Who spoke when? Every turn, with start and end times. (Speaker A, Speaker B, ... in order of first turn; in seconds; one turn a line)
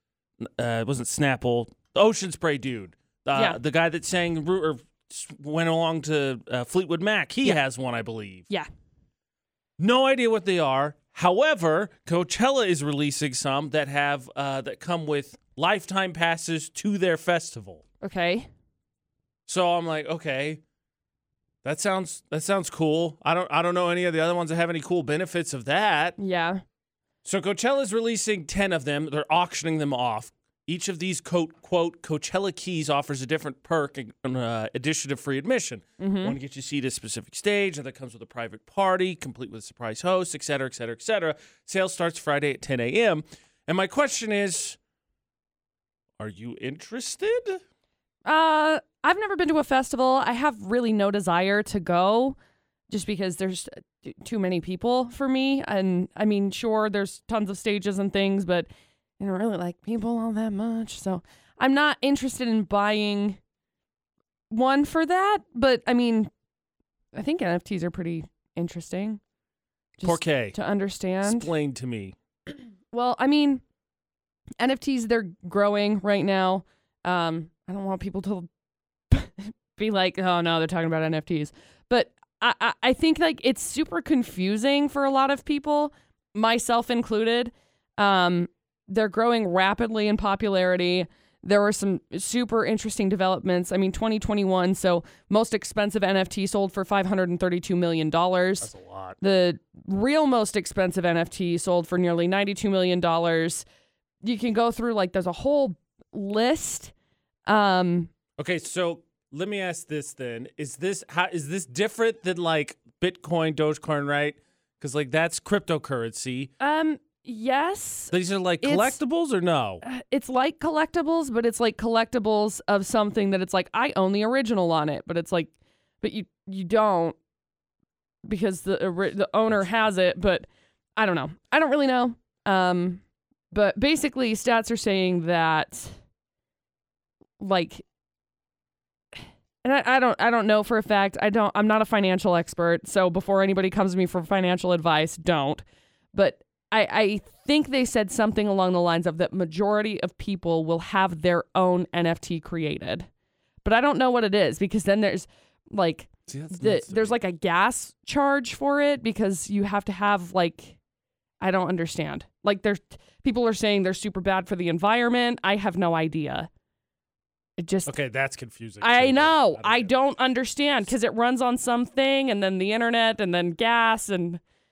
Speaker A: 0.4-8.5
Speaker B: 3.3-3.6
Speaker A: 9.8-17.8
Speaker B: 18.0-18.5
Speaker A: 19.5-20.6
Speaker A: 21.6-26.2
Speaker B: 26.2-26.6
Speaker A: 27.2-44.8
Speaker B: 36.0-36.4
Speaker A: 46.2-47.6
Speaker B: 48.2-52.4
Speaker B: 52.9-58.7
Speaker B: 59.2-63.4
Speaker B: 64.5-66.3
Speaker B: 67.1-69.2
Speaker B: 70.0-71.5
Speaker A: 70.0-70.5
Speaker A: 71.2-72.2
Speaker B: 72.9-73.6
Speaker B: 74.6-78.5
Speaker B: 79.1-98.7
Speaker A: 98.6-99.2
Speaker B: 99.2-103.7
Speaker B: 104.2-106.9
Speaker B: 107.5-108.1
Speaker A: 108.4-116.5
Speaker B: 116.6-119.0
Speaker A: 118.1-119.8
Speaker B: 119.8-127.2
Speaker B: 128.2-133.0
Speaker B: 133.5-135.9
Speaker B: 137.4-137.8
Speaker B: 139.6-153.1
Speaker B: 153.6-160.8
Speaker A: 156.3-157.2
Speaker B: 161.4-166.5
Speaker B: 167.6-167.9
Speaker A: 167.8-169.9
Speaker B: 168.8-174.4